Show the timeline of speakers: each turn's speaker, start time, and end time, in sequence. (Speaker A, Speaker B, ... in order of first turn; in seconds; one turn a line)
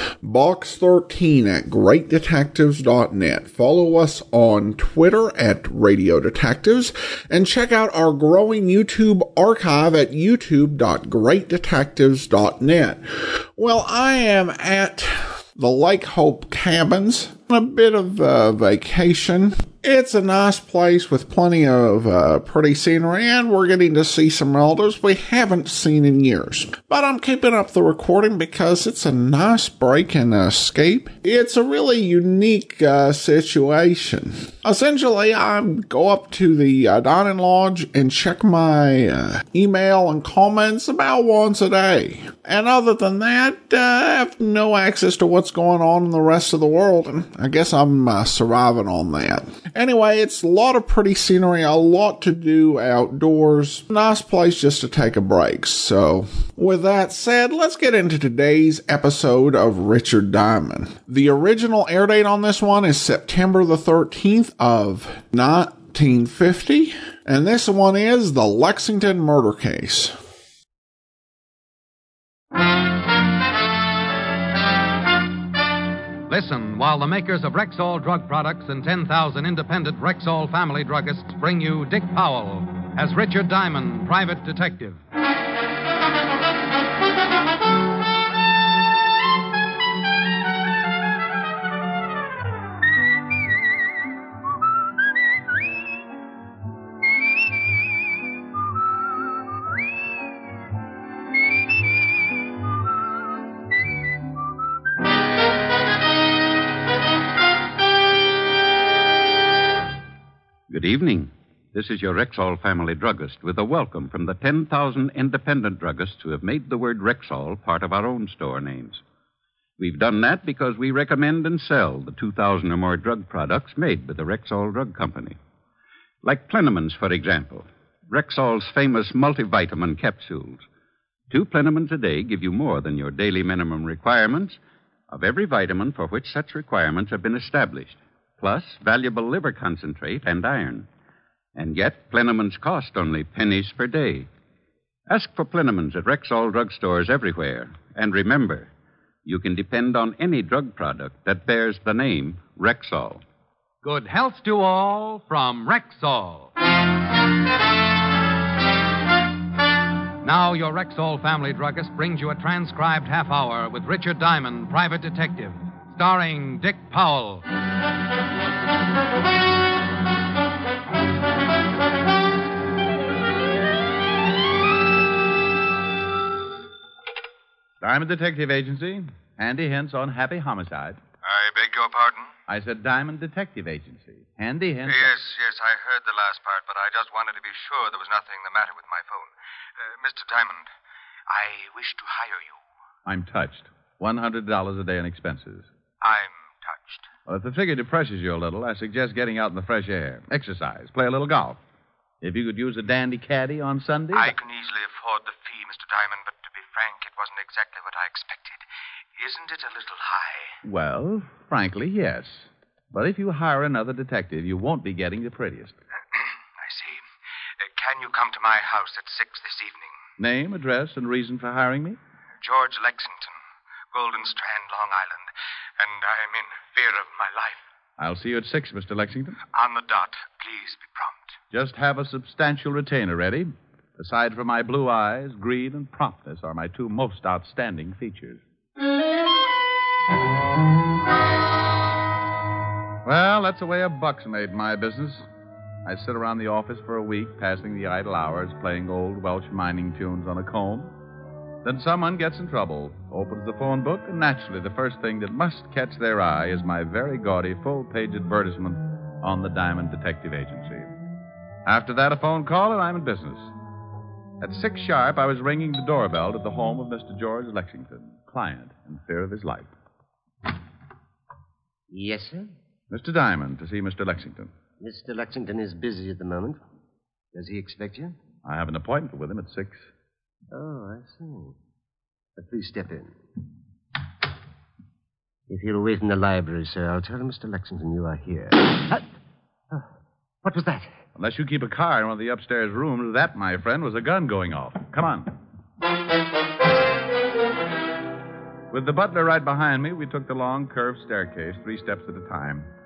Speaker A: 0.2-70.2
Speaker B: 76.3-85.0
Speaker C: 110.7-119.0
Speaker C: 119.8-125.4
Speaker C: 126.2-130.6
Speaker C: 131.3-134.6
Speaker C: 135.1-140.9
Speaker C: 141.6-144.3
Speaker C: 145.1-148.7
Speaker C: 149.2-153.2
Speaker B: 153.8-156.5
Speaker B: 160.2-167.4
Speaker D: 177.8-181.0
Speaker E: 181.2-182.3
Speaker D: 182.5-185.1
Speaker E: 184.9-190.7
Speaker E: 191.3-192.6
Speaker D: 193.1-195.7
Speaker E: 196.0-197.1
Speaker D: 197.3-201.6
Speaker D: 202.2-204.3
Speaker E: 204.1-208.6
Speaker E: 209.2-210.5
Speaker D: 210.6-215.8
Speaker E: 216.6-217.0
Speaker E: 217.6-220.0
Speaker D: 220.2-222.0
Speaker E: 222.4-223.4
Speaker E: 223.9-227.6
Speaker D: 228.0-229.4
Speaker E: 229.5-231.4
Speaker D: 231.5-238.4
Speaker D: 243.1-245.3
Speaker D: 245.8-250.9
Speaker D: 251.6-260.9
Speaker D: 261.7-263.5
Speaker D: 264.4-269.7
Speaker F: 271.9-272.5
Speaker D: 272.9-274.5
Speaker F: 274.8-276.6
Speaker F: 277.3-278.2
Speaker D: 278.4-279.9
Speaker F: 280.5-281.6
Speaker F: 282.4-283.1
Speaker F: 285.5-289.0
Speaker F: 290.4-290.9
Speaker D: 291.1-295.3
Speaker D: 298.7-302.7